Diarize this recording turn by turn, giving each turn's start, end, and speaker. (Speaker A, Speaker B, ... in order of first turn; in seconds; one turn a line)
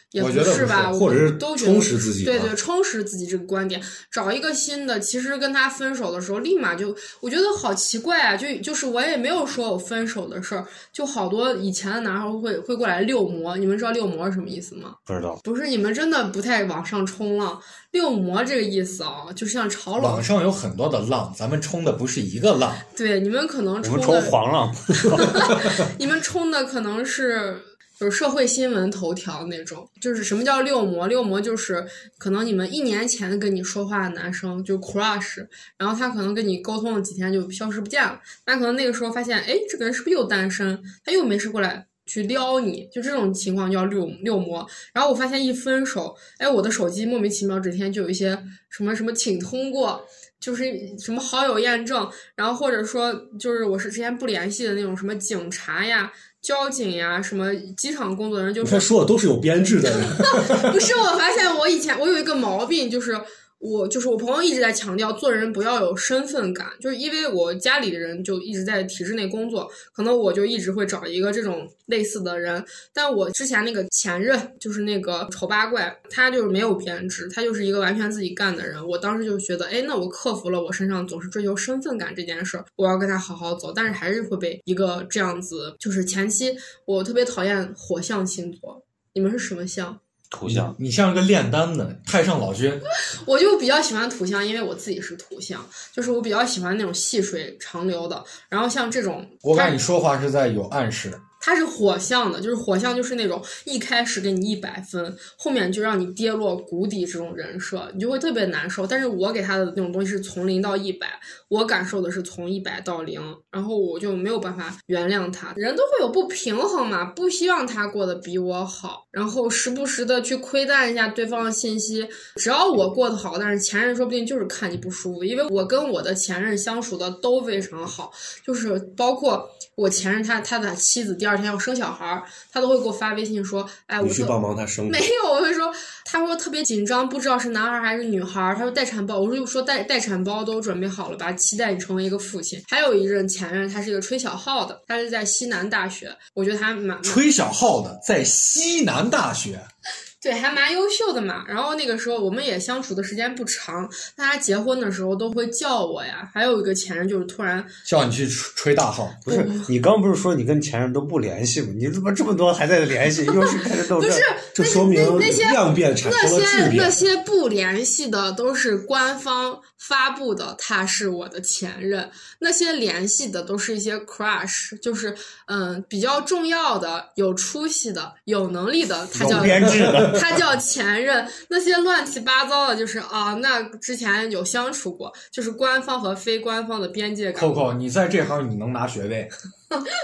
Speaker A: 0.1-20.2
Speaker B: 0.2-1.0
Speaker C: 0.3-2.5
Speaker D: 15.1-15.4
Speaker B: 20.0-22.9
Speaker A: 22.9-24.4
Speaker D: 23.8-25.8
Speaker A: 25.0-58.9
Speaker C: 58.6-60.8
Speaker A: 60.1-90.0
Speaker D: 90.3-90.8
Speaker B: 90.5-92.8
Speaker A: 92.9-99.8
Speaker B: 99.4-101.2
Speaker A: 101.4-147.2
Speaker C: 134.0-135.1
Speaker B: 147.0-149.7
Speaker A: 150.2-157.7
Speaker B: 157.8-159.3
Speaker A: 159.3-159.7
Speaker D: 159.3-164.3
Speaker A: 163.3-187.8
Speaker C: 164.6-167.0
Speaker B: 179.2-180.1
Speaker D: 179.2-180.4
Speaker B: 187.3-189.3